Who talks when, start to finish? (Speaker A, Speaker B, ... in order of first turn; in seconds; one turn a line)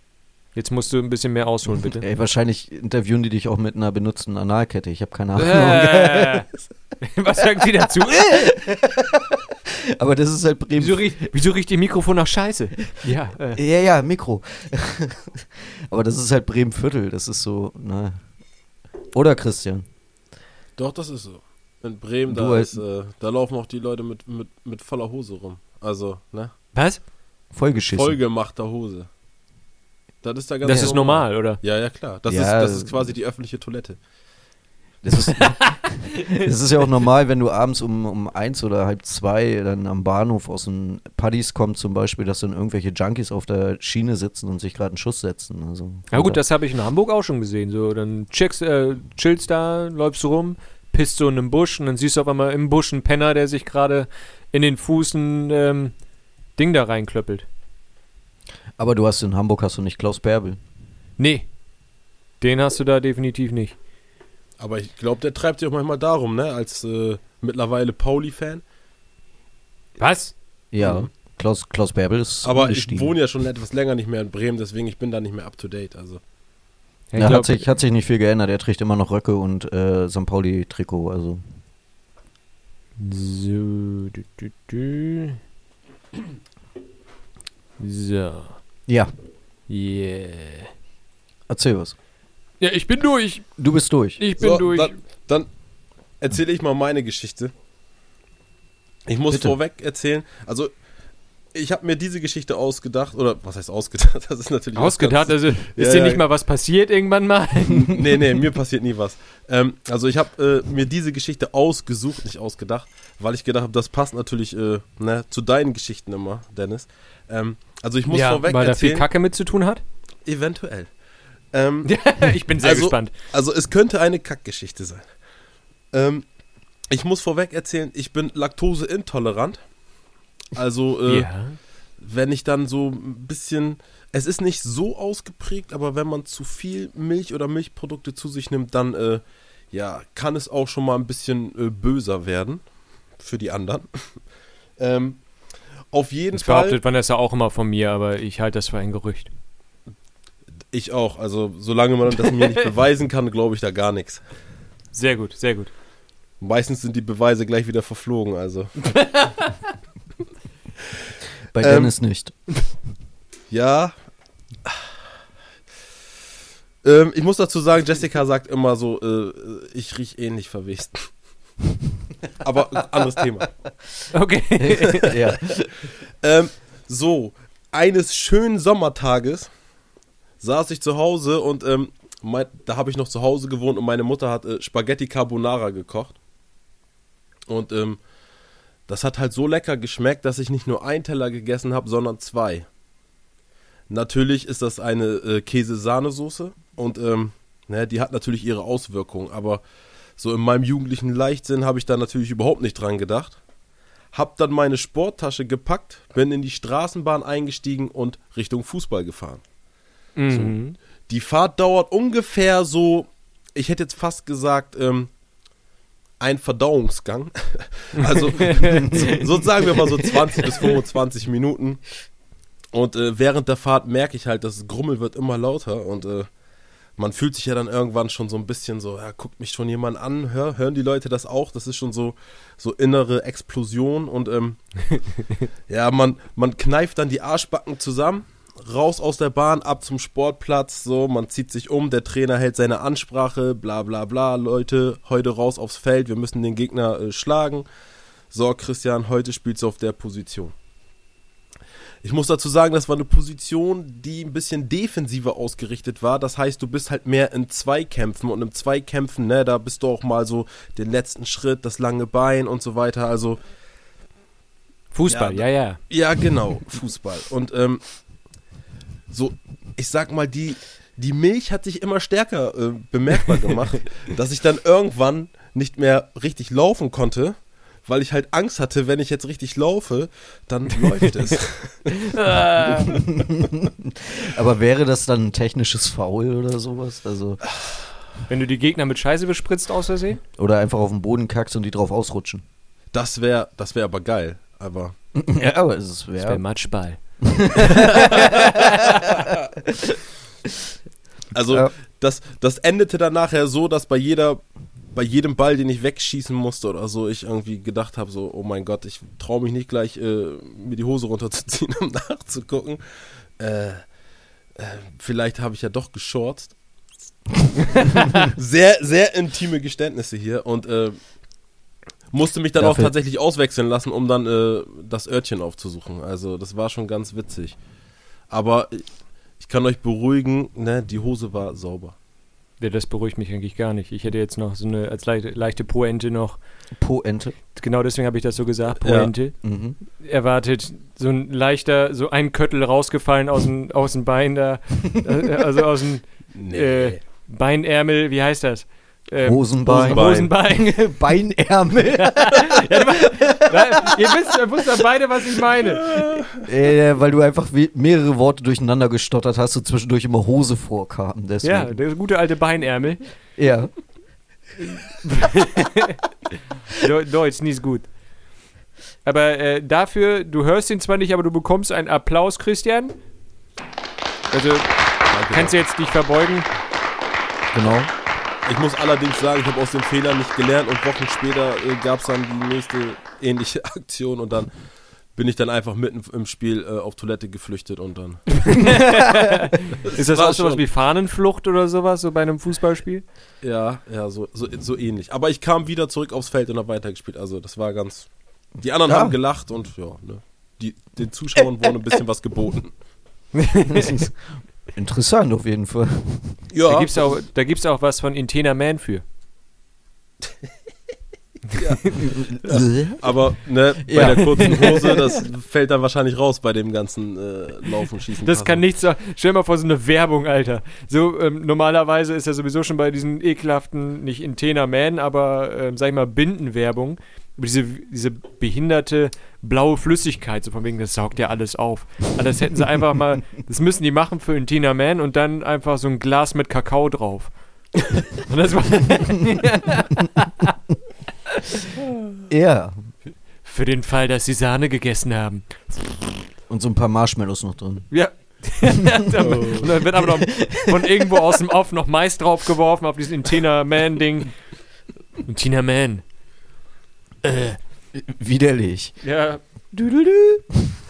Speaker A: 0.5-2.0
Speaker B: 1.7-6.5
Speaker A: 5.3-8.5
Speaker B: 8.0-11.3
Speaker A: 10.8-13.6
Speaker B: 13.5-18.2
Speaker B: 19.1-19.9
Speaker C: 20.8-26.5
Speaker B: 22.3-22.8
Speaker A: 26.7-27.0
Speaker B: 27.5-28.2
Speaker C: 27.7-29.1
Speaker C: 30.2-34.0
Speaker A: 30.6-31.6
Speaker B: 30.6-30.9
Speaker B: 32.3-33.1
Speaker B: 35.0-46.4
Speaker A: 35.3-36.4
Speaker A: 46.1-55.9
Speaker A: 56.6-57.5
Speaker B: 58.8-60.6
Speaker A: 61.2-61.5
Speaker A: 62.4-63.8
Speaker C: 64.6-68.6
Speaker A: 70.0-70.3
Speaker B: 70.7-73.1
Speaker C: 70.8-71.1
Speaker C: 72.4-76.2
Speaker A: 77.1-77.7
Speaker B: 77.2-81.4
Speaker A: 83.0-85.4
Speaker A: 87.8-88.6
Speaker B: 88.9-89.1
Speaker A: 89.7-90.7
Speaker B: 91.5-91.9
Speaker A: 92.6-93.5
Speaker B: 93.6-94.2
Speaker A: 94.2-94.9
Speaker C: 94.4-95.5
Speaker C: 96.2-97.5
Speaker C: 99.1-100.7
Speaker B: 99.3-99.5
Speaker C: 101.5-106.2
Speaker A: 104.7-108.0
Speaker C: 107.9-119.1
Speaker A: 118.1-119.8
Speaker C: 120.2-120.9
Speaker C: 121.5-121.9
Speaker A: 121.8-123.1
Speaker C: 122.6-125.0
Speaker C: 125.9-126.2
Speaker C: 126.9-129.6
Speaker C: 130.5-131.3
Speaker A: 131.1-131.6
Speaker C: 132.0-142.6
Speaker C: 143.2-144.1
Speaker C: 144.8-145.2
Speaker C: 145.9-146.8
Speaker A: 146.3-149.3
Speaker C: 150.7-154.2
Speaker A: 154.9-155.7
Speaker C: 156.4-159.3
Speaker A: 159.0-159.5
Speaker B: 161.5-162.3
Speaker C: 161.6-161.9
Speaker C: 163.5-163.9
Speaker C: 166.8-171.1
Speaker C: 172.4-173.5
Speaker A: 174.1-175.2
Speaker B: 174.7-175.7
Speaker C: 174.9-175.3
Speaker C: 176.2-179.5
Speaker C: 180.4-186.2
Speaker C: 187.5-188.0
Speaker C: 188.9-192.7
Speaker C: 193.9-199.6
Speaker C: 200.2-203.4
Speaker C: 204.1-209.4
Speaker A: 210.2-210.8
Speaker C: 211.1-215.1
Speaker C: 216.2-221.8
Speaker A: 217.9-219.2
Speaker B: 218.6-219.8
Speaker C: 222.7-226.3
Speaker C: 227.0-235.0
Speaker C: 235.7-247.7
Speaker C: 248.3-250.5
Speaker C: 252.0-263.4
Speaker A: 264.9-265.8
Speaker C: 265.1-267.8
Speaker C: 269.1-282.2
Speaker A: 282.0-283.0
Speaker B: 282.7-287.4
Speaker A: 288.3-290.2
Speaker B: 290.4-292.4
Speaker C: 292.9-294.9
Speaker B: 295.1-296.4
Speaker A: 296.2-297.0
Speaker B: 297.2-300.5
Speaker A: 297.6-299.1
Speaker C: 298.0-298.3
Speaker C: 301.3-304.4
Speaker C: 304.9-312.8
Speaker C: 313.4-313.8
Speaker C: 314.6-316.5
Speaker C: 317.7-321.0
Speaker A: 317.8-318.3
Speaker C: 322.1-327.6
Speaker B: 322.6-322.9
Speaker C: 328.3-328.9
Speaker C: 329.4-331.9
Speaker A: 332.6-336.4
Speaker B: 336.8-337.4
Speaker A: 337.5-339.4
Speaker C: 338.8-339.1
Speaker B: 339.4-339.8
Speaker A: 339.9-350.9
Speaker C: 346.3-347.0
Speaker B: 349.2-354.2
Speaker C: 349.6-350.3
Speaker A: 351.9-356.2
Speaker C: 355.8-356.4
Speaker B: 356.4-361.8
Speaker A: 361.4-363.0
Speaker B: 363.4-363.7
Speaker A: 364.6-366.0
Speaker A: 366.7-367.9
Speaker A: 369.0-372.9
Speaker A: 374.3-376.4
Speaker C: 375.1-375.6
Speaker B: 377.5-377.9
Speaker C: 378.4-384.5
Speaker C: 385.1-388.6
Speaker A: 388.4-393.0
Speaker B: 388.6-389.2
Speaker C: 389.8-390.6
Speaker C: 393.4-398.1
Speaker C: 398.6-402.7
Speaker B: 398.9-399.1
Speaker A: 403.3-403.9
Speaker B: 403.6-406.4
Speaker C: 406.5-407.0
Speaker A: 406.6-409.0
Speaker C: 411.5-418.6
Speaker A: 411.5-412.1
Speaker B: 412.0-413.2
Speaker B: 413.8-415.1
Speaker A: 414.4-414.7
Speaker A: 418.2-437.3
Speaker A: 437.9-440.5
Speaker A: 441.3-441.8
Speaker B: 442.3-442.7
Speaker A: 443.4-446.1
Speaker B: 446.5-447.9
Speaker A: 447.9-454.3
Speaker B: 448.6-449.0
Speaker C: 449.2-449.7
Speaker B: 450.0-451.2
Speaker A: 455.2-456.0
Speaker A: 457.2-457.6
Speaker B: 457.9-459.0
Speaker A: 459.0-459.4
Speaker B: 459.7-460.8